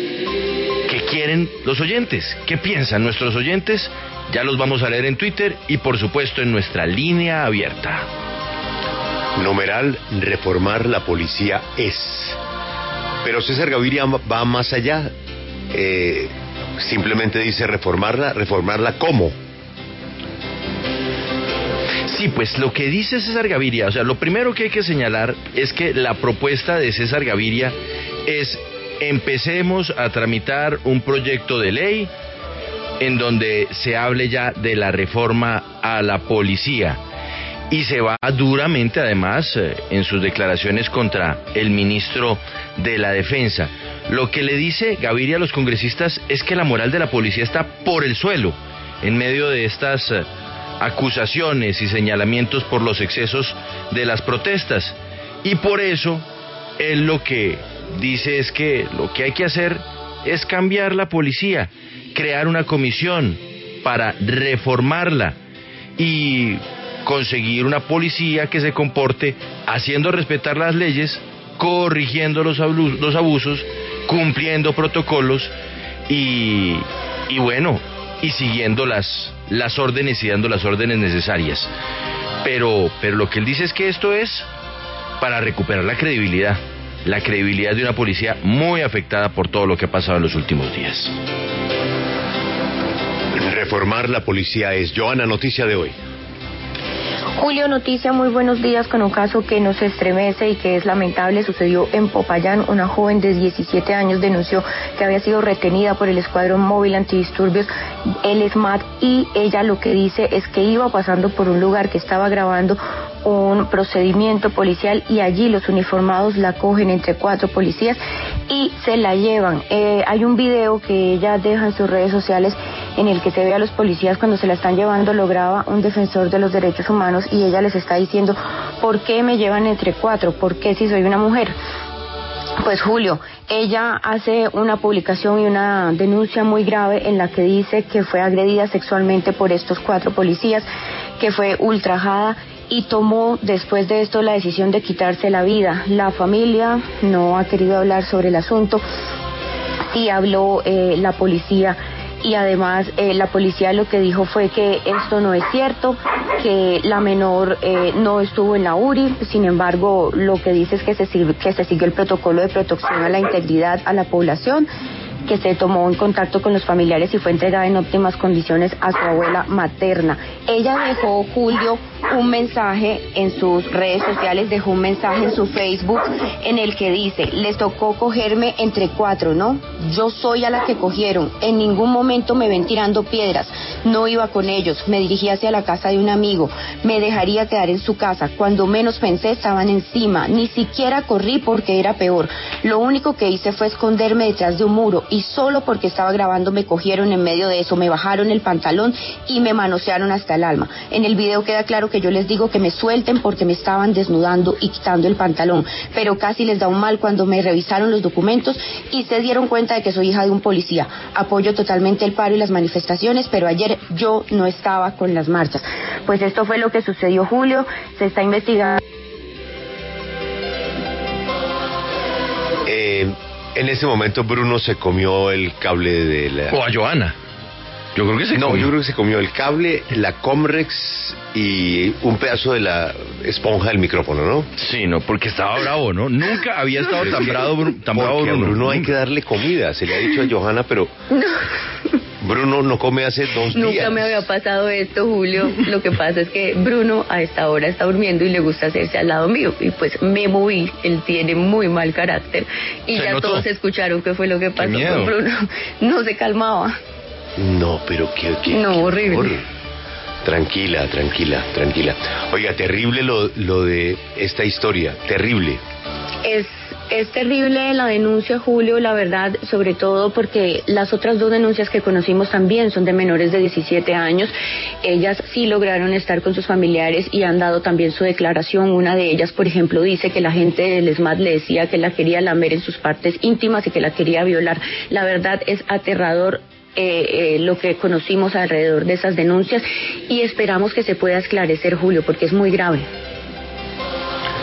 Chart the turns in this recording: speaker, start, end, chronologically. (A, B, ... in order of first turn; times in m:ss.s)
0:00.8-0:08.0 A
0:09.4-0:12.4 B
0:13.2-0:15.1 B
0:15.7-0:19.3 B
0:22.0-0:27.7 A
0:28.2-0:32.1 A
0:33.0-0:37.0 A
0:37.7-0:50.2 A
0:50.8-0:56.2 A
0:56.8-1:05.4 A
1:06.0-1:15.5 A
1:16.1-1:21.7 A
1:22.4-1:24.5 A
1:25.2-1:31.1 A
1:33.4-1:36.0 B
1:37.4-1:47.7 C
1:48.2-2:11.5 C
2:12.6-2:20.6 C
2:21.2-2:28.8 C
2:29.9-2:44.7 C
2:45.2-3:38.8 C
3:42.6-3:46.6 B
3:46.5-3:47.2 A
3:47.9-3:48.7 A
3:48.4-3:54.5 B
3:54.6-3:58.9 A
3:57.0-4:00.9 B
4:01.1-4:01.4 C
4:02.2-4:04.2 B
4:03.5-4:16.7 C
4:12.9-4:13.4 A
4:14.6-4:15.1 A
4:17.4-4:19.4 B
4:18.5-4:19.3 C
4:20.2-4:25.6 B
4:26.2-4:52.8 C